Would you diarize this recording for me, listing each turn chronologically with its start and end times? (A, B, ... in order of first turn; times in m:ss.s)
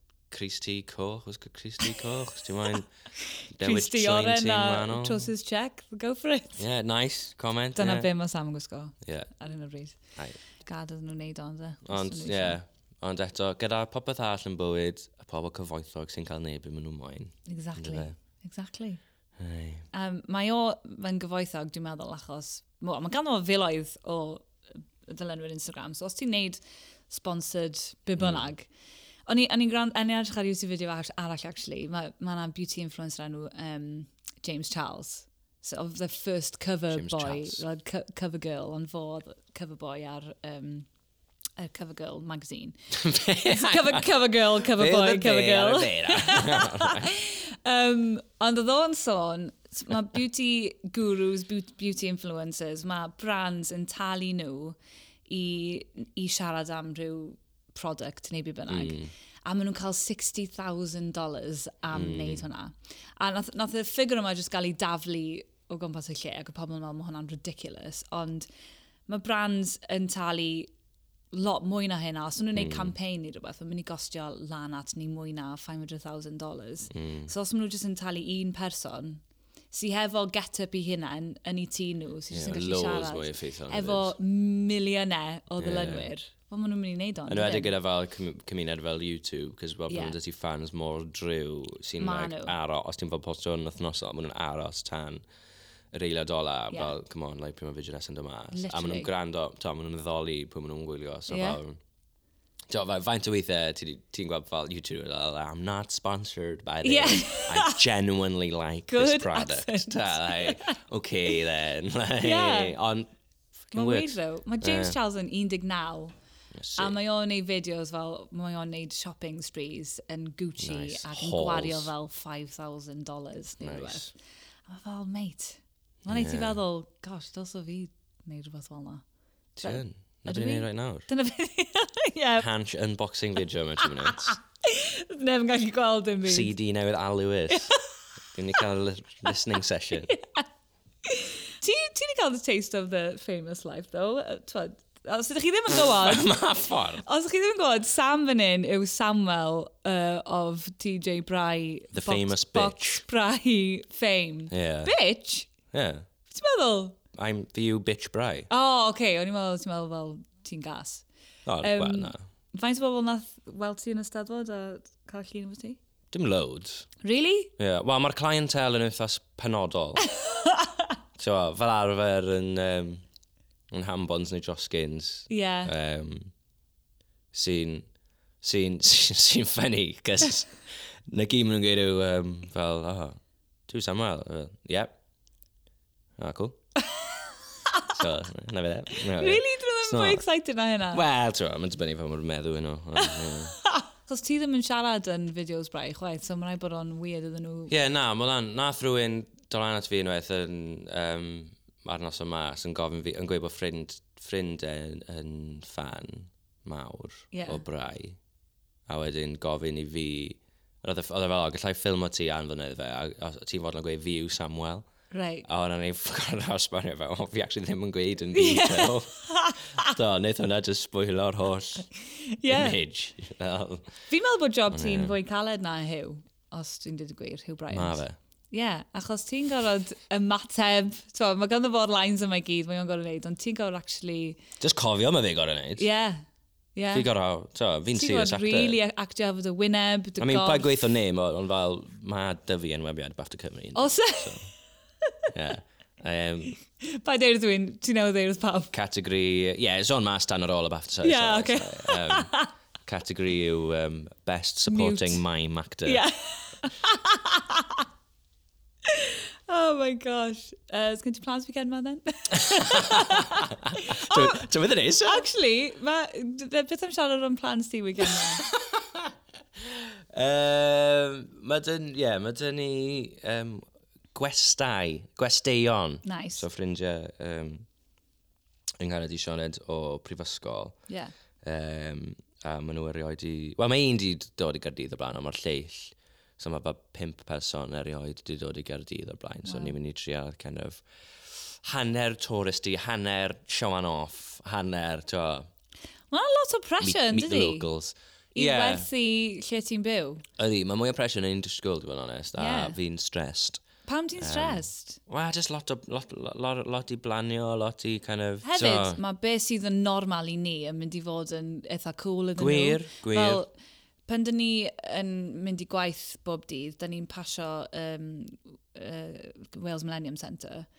0:00.3-0:02.9 A
0:03.5-0:05.3 A
0:03.6-0:06.6 B
0:06.6-0:08.1 A
0:07.8-0:10.0 B
0:09.0-0:09.3 A
0:10.6-0:12.6 B
0:11.8-0:18.1 A
0:17.4-0:19.0 B
0:19.4-0:19.8 A
0:19.9-0:24.5 B
0:25.0-0:28.7 B
0:28.2-0:28.5 A
0:29.3-0:40.9 B
0:36.9-0:37.6 A
0:41.6-0:42.8 B
0:42.9-0:47.1 A
0:43.4-0:54.8 B
0:55.3-1:08.5 B
0:58.7-0:59.1 A
1:01.9-1:02.4 A
1:09.1-1:10.7 B
1:11.3-1:27.8 B
1:12.6-1:12.9 A
1:16.9-1:17.3 A
1:22.3-1:24.1 A
1:25.6-1:26.1 A
1:27.3-1:35.2 A
1:29.9-1:30.2 B
1:32.0-1:32.5 B
1:35.9-1:41.8 A
1:38.5-1:39.1 B
1:41.3-1:41.6 B
1:42.7-1:53.1 A
1:46.8-1:47.8 B
1:48.9-1:50.8 B
1:52.2-1:52.8 B
1:53.7-1:55.0 A
1:53.7-1:56.1 B
1:56.5-1:56.9 A
1:56.8-2:04.1 B
2:00.6-2:01.9 A
2:03.6-2:04.1 A
2:04.7-2:09.0 B
2:06.0-2:06.6 A
2:09.6-2:11.0 A
2:09.6-2:12.5 B
2:12.4-2:14.3 A
2:13.8-2:16.5 B
2:16.2-2:17.7 A
2:17.5-2:17.8 B
2:18.3-2:20.1 A
2:20.1-2:20.4 B
2:21.0-2:26.3 B
2:25.7-2:27.0 A
2:27.0-2:35.5 B
2:31.9-2:33.0 A
2:34.5-2:34.9 A
2:35.7-2:36.0 A
2:36.2-2:37.0 B
2:37.1-2:38.5 A
2:38.5-2:41.0 B
2:41.4-2:42.2 A
2:41.6-2:45.8 B
2:46.1-2:46.9 A
2:47.0-2:47.5 B
2:47.6-2:50.0 A
2:50.0-2:50.9 B
2:51.2-2:53.0 A
2:53.7-2:56.3 A
2:55.3-2:55.7 B
2:57.3-2:57.9 A
2:58.4-3:00.6 A
3:01.1-3:04.9 A
3:06.2-3:06.6 A
3:07.7-3:08.0 B
3:07.9-3:10.2 A
3:08.9-3:11.0 B
3:10.9-3:13.5 A
3:13.0-3:17.7 B
3:17.7-3:28.2 A
3:27.3-3:27.6 B
3:28.9-3:34.9 A
3:35.1-3:35.5 B
3:35.4-3:39.2 A
3:38.3-3:39.9 B
3:39.7-3:41.9 A
3:42.0-3:42.8 B
3:42.5-3:43.9 A
3:44.1-3:54.4 B
3:44.7-3:45.1 A
3:47.7-3:48.2 A
3:54.6-3:55.9 A
3:55.8-3:56.2 B
3:56.7-3:57.1 B
3:56.9-3:58.8 A
3:57.9-4:00.8 B
4:00.2-4:04.5 A
4:03.7-4:04.5 B
4:05.3-4:06.6 A
4:06.8-4:08.7 B
4:08.7-4:12.3 A
4:11.0-4:12.5 B
4:12.8-4:16.0 A
4:14.7-4:15.2 B
4:15.8-4:17.8 B
4:18.8-4:24.5 B
4:22.3-4:25.3 A
4:25.0-4:28.4 B
4:28.1-4:37.6 A
4:36.0-4:36.4 B
4:38.8-4:40.8 A
4:40.9-4:41.1 B
4:41.4-4:55.5 A
4:49.4-4:49.7 B
4:56.1-4:57.7 B
4:56.8-4:58.9 A
4:58.3-5:00.2 B
5:00.4-5:03.6 A
5:02.4-5:02.8 B
5:03.8-5:05.0 B
5:04.2-5:09.0 A
5:08.4-5:13.5 B
5:12.4-5:13.4 A
5:14.1-5:20.7 B